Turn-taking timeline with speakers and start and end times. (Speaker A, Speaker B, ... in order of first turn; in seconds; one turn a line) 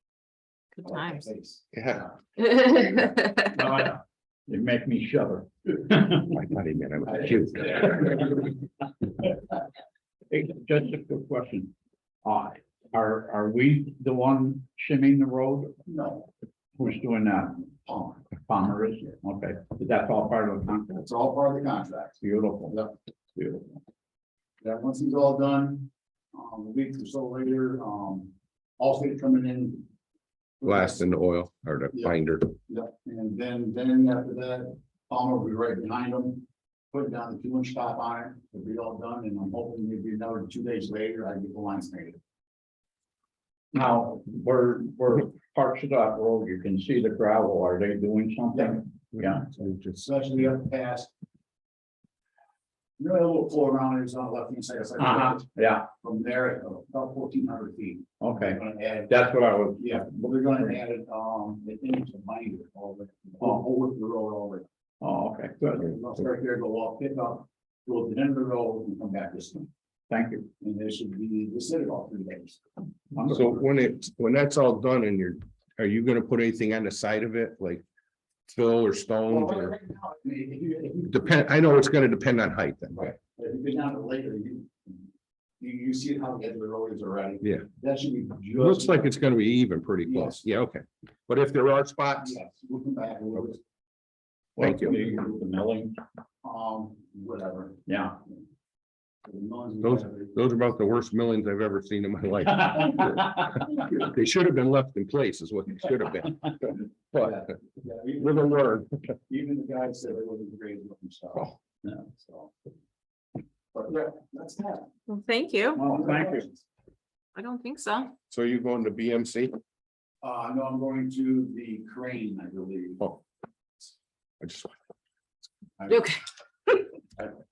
Speaker A: 0.8-1.2
Speaker B: 0.8-3.1
Speaker C: 1.7-2.0
Speaker A: 2.4-3.5
Speaker D: 3.5-6.4
Speaker C: 6.3-8.3
Speaker B: 7.0-8.5
Speaker D: 10.3-11.7
Speaker D: 12.2-15.8
Speaker B: 15.8-16.3
Speaker D: 16.8-17.7
Speaker B: 17.8-18.3
Speaker D: 18.3-21.0
Speaker B: 20.9-22.9
Speaker D: 22.2-22.8
Speaker D: 23.4-23.8
Speaker B: 24.6-29.9
Speaker B: 30.6-31.0
Speaker C: 30.6-32.5
Speaker B: 31.9-42.2
Speaker D: 43.7-49.5
Speaker B: 48.5-48.8
Speaker C: 49.1-50.0
Speaker B: 49.6-51.1
Speaker B: 53.0-59.2
Speaker D: 55.0-55.9
Speaker D: 58.2-60.0
Speaker B: 59.8-64.7
Speaker D: 65.0-65.9
Speaker B: 65.8-69.7
Speaker D: 70.1-70.5
Speaker B: 70.6-72.6
Speaker D: 73.1-73.5
Speaker C: 73.3-77.8
Speaker C: 78.5-79.7
Speaker B: 79.3-81.8
Speaker C: 81.1-83.1
Speaker B: 82.9-85.1
Speaker B: 85.6-89.2
Speaker C: 88.6-92.4
Speaker B: 90.0-90.4
Speaker B: 92.2-93.6
Speaker D: 94.5-96.0
Speaker C: 94.6-95.0
Speaker B: 96.4-97.9
Speaker D: 97.9-98.1
Speaker B: 99.2-100.4
Speaker C: 99.8-107.4
Speaker B: 107.1-112.5
Speaker C: 108.2-109.0
Speaker B: 113.7-114.9
Speaker A: 115.1-115.8
Speaker D: 115.7-116.5
Speaker B: 115.8-116.6
Speaker A: 117.3-118.1
Speaker C: 118.3-119.6
Speaker B: 120.2-123.2
Speaker C: 124.4-124.8
Speaker B: 125.8-126.1
Speaker A: 125.9-126.1